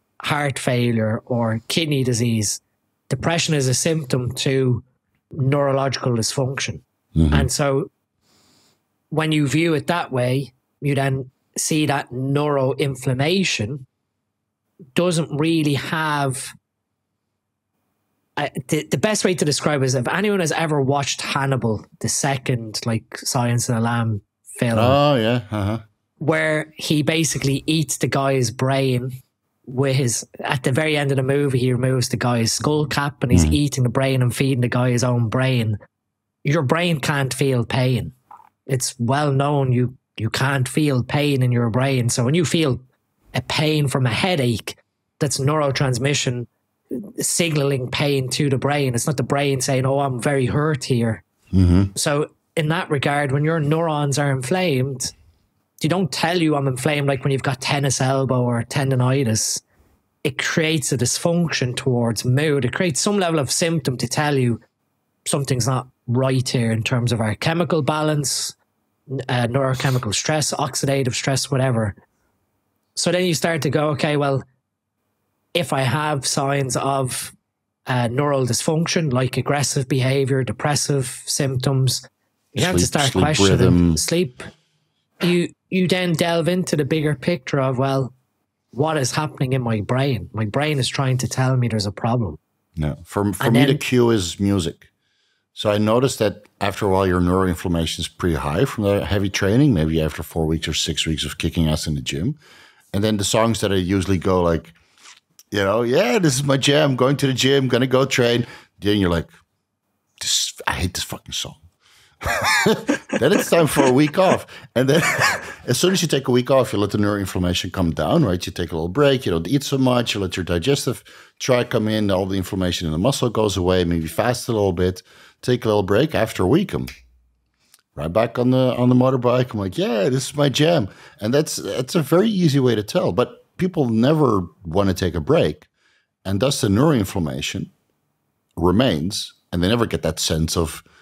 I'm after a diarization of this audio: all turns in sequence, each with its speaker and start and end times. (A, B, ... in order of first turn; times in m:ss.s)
0:00.2-0:07.9 A
0:07.2-0:07.5 B
0:09.1-0:13.8 A
0:15.0-0:16.5 A
0:18.4-0:25.0 A
0:24.7-0:25.8 B
0:26.2-0:29.2 A
0:29.7-0:35.8 A
0:33.3-0:33.6 B
0:36.4-0:38.2 A
0:38.7-0:42.8 A
0:43.3-0:51.2 A
0:51.5-0:51.9 B
0:52.0-0:55.1 A
0:55.8-0:59.6 A
1:00.2-1:04.6 A
1:05.3-1:08.6 A
1:09.1-1:12.0 A
1:13.0-1:14.4 A
1:15.5-1:17.3 A
1:17.9-1:22.0 A
1:22.5-1:24.5 A
1:22.6-1:24.0 B
1:25.2-1:28.1 A
1:28.7-1:32.4 A
1:32.8-1:34.9 B
1:33.4-1:33.8 A
1:35.6-1:42.4 B
1:42.9-1:44.8 B
1:45.5-1:49.3 B
1:50.2-1:51.6 B
1:52.2-2:06.9 B
2:08.0-2:15.7 B
2:16.2-2:17.7 B
2:18.6-2:20.8 B